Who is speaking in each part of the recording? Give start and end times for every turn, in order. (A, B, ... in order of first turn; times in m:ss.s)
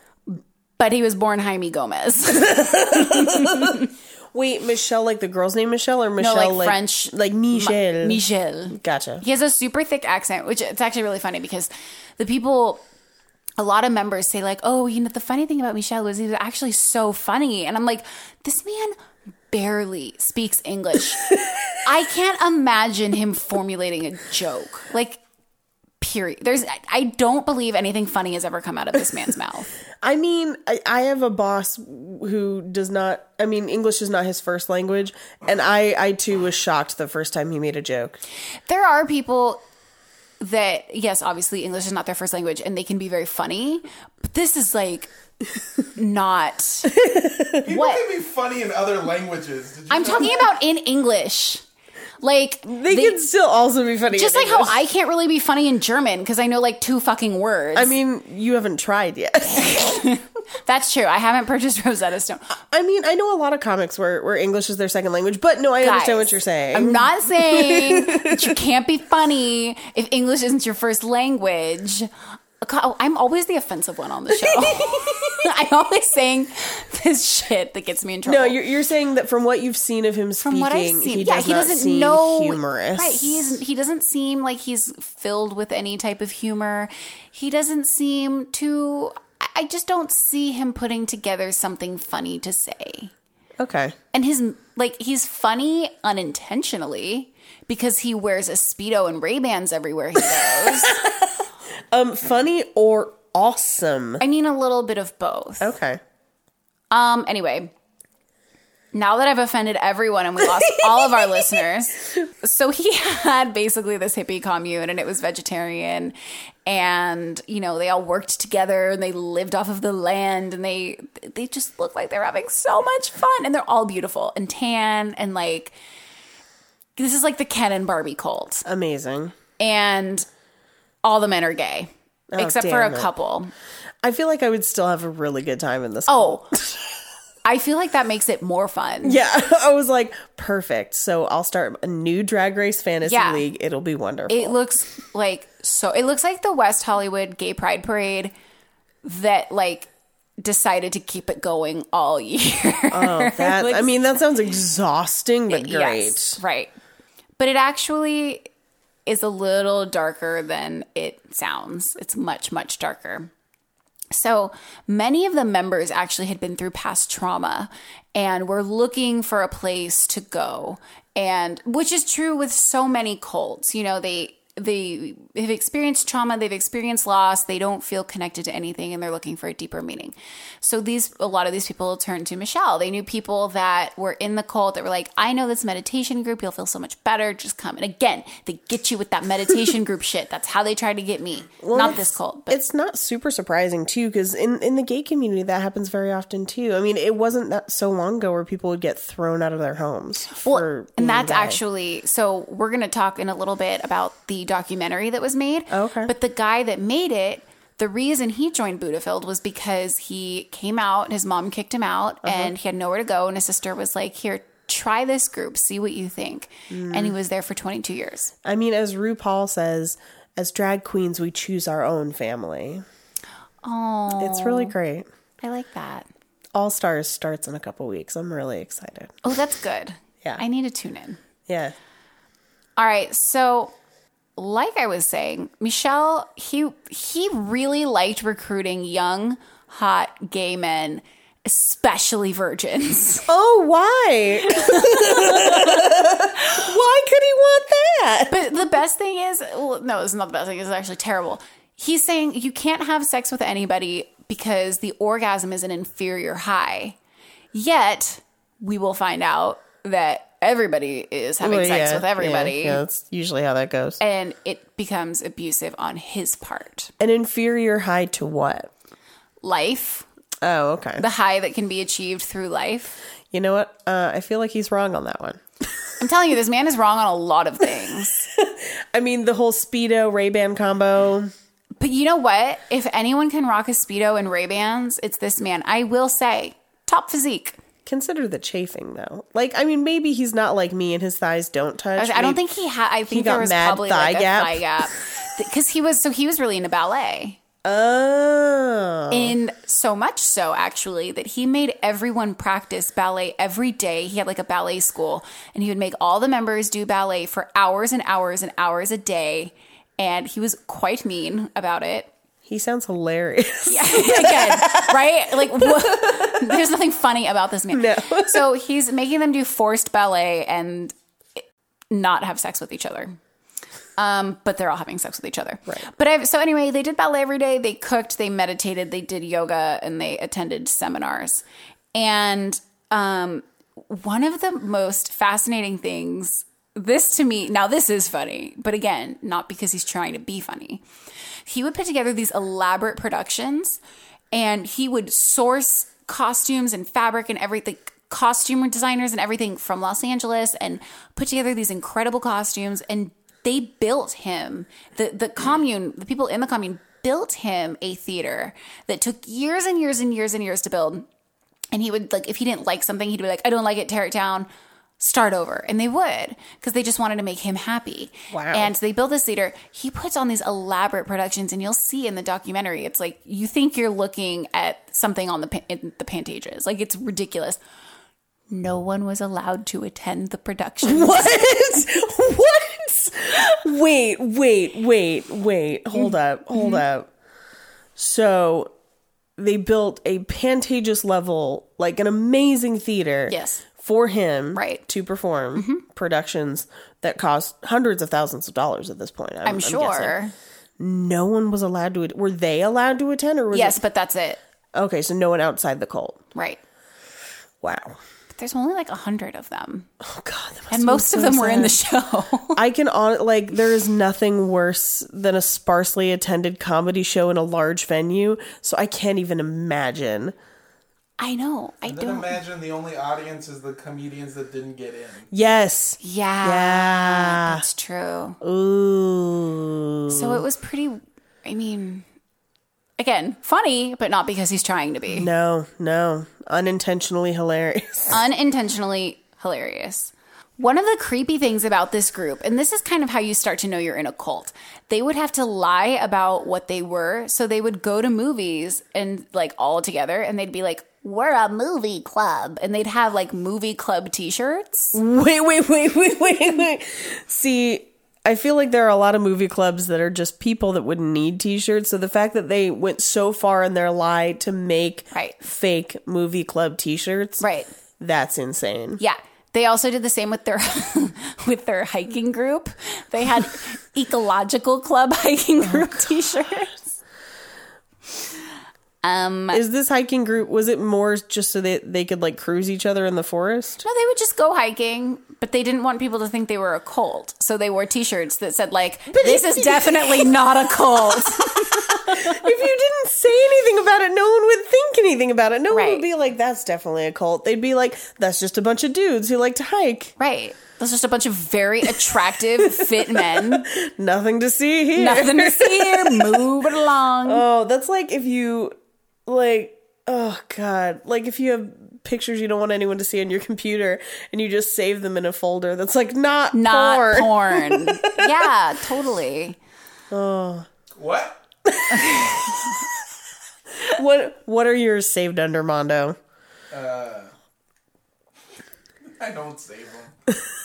0:00.3-0:03.9 A
0:02.5-0:03.8 B
0:04.3-0:09.2 B
0:06.2-0:12.8 A
0:13.6-0:19.0 A
0:19.5-0:21.3 A
0:21.8-0:25.2 A
0:26.0-0:29.7 A
0:30.0-0:38.2 B
0:38.7-0:39.6 A
0:40.4-0:45.1 A
0:45.9-0:47.0 A
0:46.9-0:47.6 B
0:47.6-0:50.4 C
0:47.7-0:48.0 A
0:49.9-0:51.6 A
0:52.2-0:53.2 A
0:52.6-0:54.7 B
0:54.1-0:57.9 A
0:57.7-1:00.1 B
0:59.6-1:02.5 A
1:02.7-1:08.6 B
1:05.8-1:12.1 A
1:12.6-1:18.6 A
1:14.3-1:15.4 B
1:18.2-1:23.5 B
1:20.4-1:33.1 A
1:33.6-1:34.0 B
1:34.1-1:41.0 A
1:40.4-1:44.2 B
1:44.2-1:45.7 A
1:45.6-1:46.0 B
1:46.9-1:47.7 A
1:48.9-1:56.1 A
1:50.6-1:51.3 B
1:56.6-2:05.7 A
2:07.0-2:08.6 A
2:08.6-2:09.3 B
2:09.6-2:10.2 A
2:11.0-2:13.5 A
2:12.3-2:13.1 B
2:14.0-2:16.8 B
2:16.1-2:16.5 A
2:17.4-2:19.2 A
2:19.0-2:24.6 B
2:23.0-2:23.4 A
2:24.3-2:28.3 A
2:29.0-2:29.9 A
2:30.4-2:33.9 A
2:32.9-2:36.4 B
2:35.5-2:36.7 A
2:37.4-2:38.5 A
2:39.0-2:43.3 A
2:44.1-3:12.6 A
3:11.6-3:21.6 B
3:20.4-3:38.3 A
3:25.7-3:26.1 B
3:32.2-3:32.5 B
3:36.7-3:37.1 B
3:38.4-3:42.8 B
3:43.6-3:44.7 A
3:44.2-3:45.1 B
3:45.4-3:46.1 A
3:46.5-3:49.1 B
3:49.2-3:51.2 A
3:51.5-3:51.7 B
3:52.8-3:53.7 A
3:54.4-4:03.3 A
4:03.3-4:08.4 B
4:04.4-4:05.8 A
4:08.3-4:17.0 A
4:17.5-4:22.8 A
4:21.4-4:24.0 B
4:24.0-4:26.9 A
4:27.0-4:28.7 B
4:29.4-4:30.1 A
4:30.4-4:31.0 B
4:31.0-4:33.0 A
4:33.3-4:35.4 B
4:36.0-4:38.3 A
4:38.1-4:41.3 B
4:41.8-4:47.6 A
4:47.8-4:52.4 B
4:52.0-4:57.4 A
4:53.1-4:54.6 B
4:57.6-4:59.4 B
4:59.1-5:12.1 A
5:12.4-5:16.6 B
5:13.7-5:21.0 A
5:17.7-5:18.5 B
5:21.9-5:23.2 A
5:24.0-5:31.4 A
5:31.9-5:40.8 A
5:41.5-5:43.8 A
5:44.3-6:01.0 A
6:01.7-6:17.6 A
6:08.3-6:08.7 B
6:18.5-6:21.7 A
6:20.8-6:27.1 B
6:25.9-6:26.8 A
6:28.0-6:28.7 B
6:29.4-6:40.2 B
6:33.3-6:33.6 A
6:34.5-6:34.8 A
6:35.5-6:35.8 A
6:39.4-6:40.3 A
6:40.8-6:43.8 B
6:43.5-6:44.4 A
6:44.7-6:46.2 B
6:46.3-6:46.6 A
6:47.6-6:48.0 B
6:48.3-6:49.9 A
6:50.0-6:51.8 B
6:50.7-6:52.6 A
6:52.5-7:00.3 B
7:01.2-7:02.3 A
7:01.8-7:05.3 C
7:05.3-7:07.6 B
7:06.0-7:08.4 A
7:08.4-7:10.4 B
7:10.1-7:12.0 A
7:13.0-7:15.3 A
7:15.1-7:18.2 B
7:18.1-7:35.0 A
7:34.9-7:47.4 B
7:45.1-7:45.4 A
7:47.4-7:47.7 A
7:48.0-7:49.0 B
7:49.0-7:56.8 A
7:55.6-7:56.0 B
7:59.0-7:59.6 A
7:59.5-8:03.8 B
8:03.8-8:12.5 A
8:09.1-8:20.1 B
8:15.7-8:16.0 A
8:20.2-8:23.7 A
8:22.6-8:26.6 B
8:24.9-8:27.4 A
8:27.2-8:28.7 B
8:29.2-8:38.5 B
8:36.5-8:39.6 A
8:40.1-8:40.7 B
8:41.0-8:41.4 C
8:41.6-8:42.9 B
8:43.7-8:46.2 B
8:46.7-8:47.3 C
8:49.2-8:50.1 C